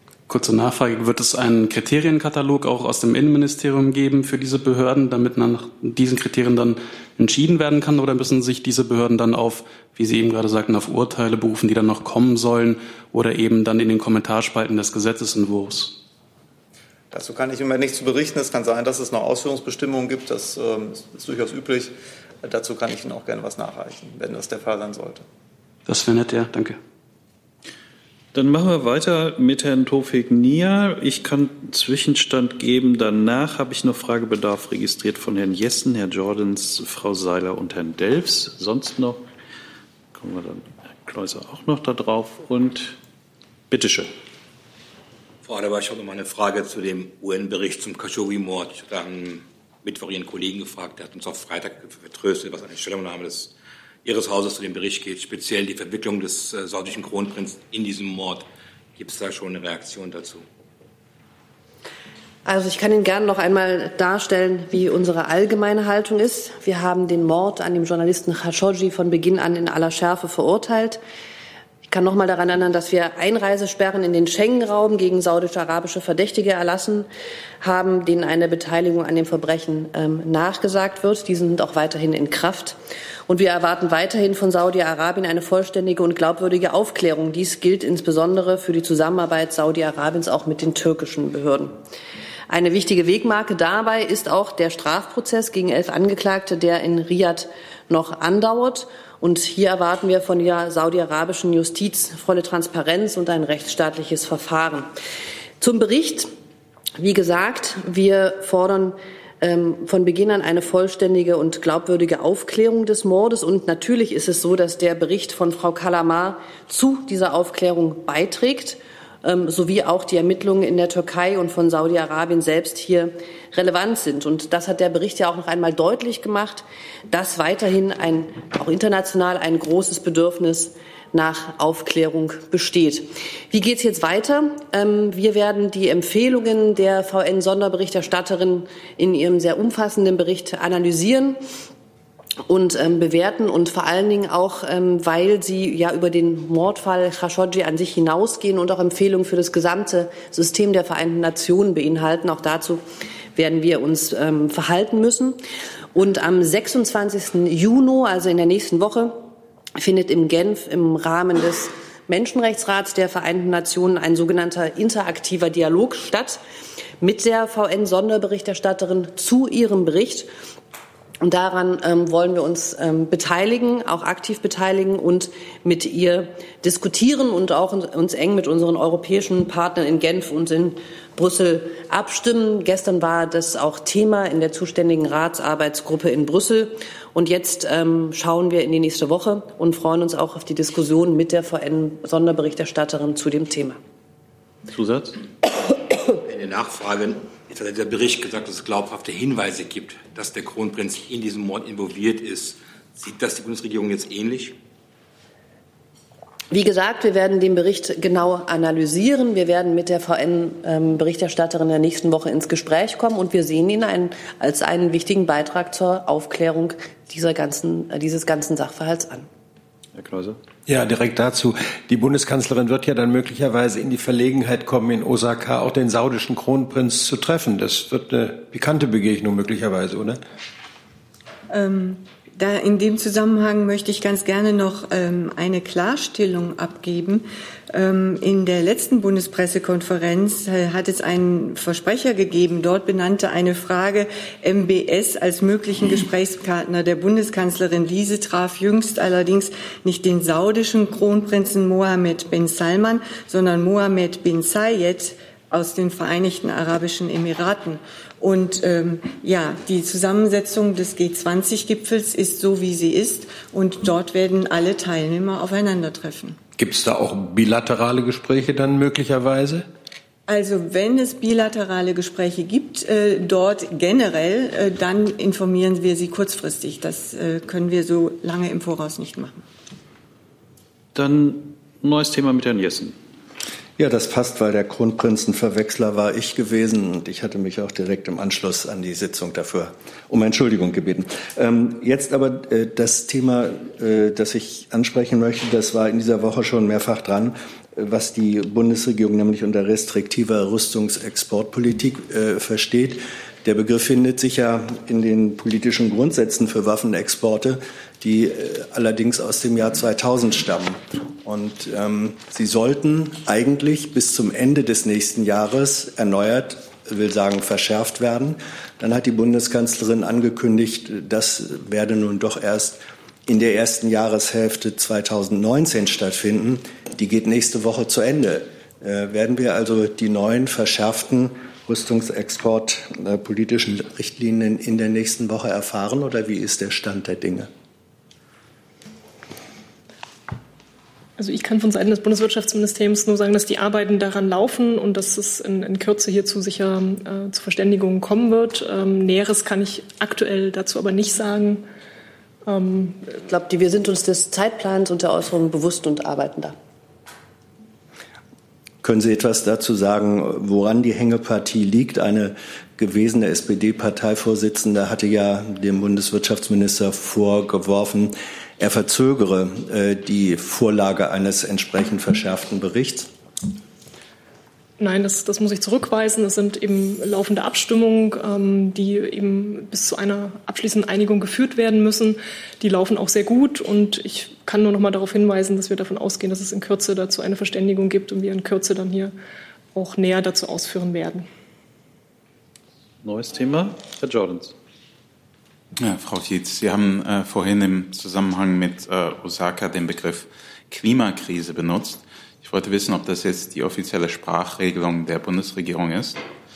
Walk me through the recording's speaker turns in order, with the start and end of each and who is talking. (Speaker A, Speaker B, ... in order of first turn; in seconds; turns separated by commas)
Speaker A: 0.3-16.0, Speaker B: 17.1-25.2, Speaker A: 25.9-26.8, Speaker C: 28.3-39.2, Speaker C: 40.1-43.0, Speaker C: 43.7-44.1, Speaker D: 45.4-53.5, Speaker D: 54.0-58.5, Speaker D: 59.0-60.4, Speaker E: 62.5-71.0, Speaker E: 71.9-77.1, Speaker E: 77.6-82.8, Speaker E: 83.3-91.8, Speaker E: 92.5-104.9, Speaker E: 105.6-106.3, Speaker E: 107.0-141.4, Speaker E: 142.5-152.8, Speaker E: 153.3-155.4, Speaker E: 155.9-159.2, Speaker E: 159.8-166.4, Speaker E: 167.0-170.3, Speaker E: 171.2-193.8, Speaker C: 194.7-195.2, Speaker D: 196.2-204.6, Speaker E: 206.5-219.3, Speaker C: 219.9-220.4, Speaker F: 220.7-230.2, Speaker G: 231.5-266.4, Speaker F: 266.6-269.7, Speaker G: 270.3-279.4, Speaker C: 280.9-283.0, Speaker H: 283.8-337.5, Speaker I: 341.2-351.6, Speaker I: 352.5-353.0, Speaker E: 353.1-356.6, Speaker H: 358.8-373.1, Speaker I: 374.8-389.1, Speaker I: 389.7-391.3, Speaker C: 393.0-394.6, Speaker J: 395.8-406.2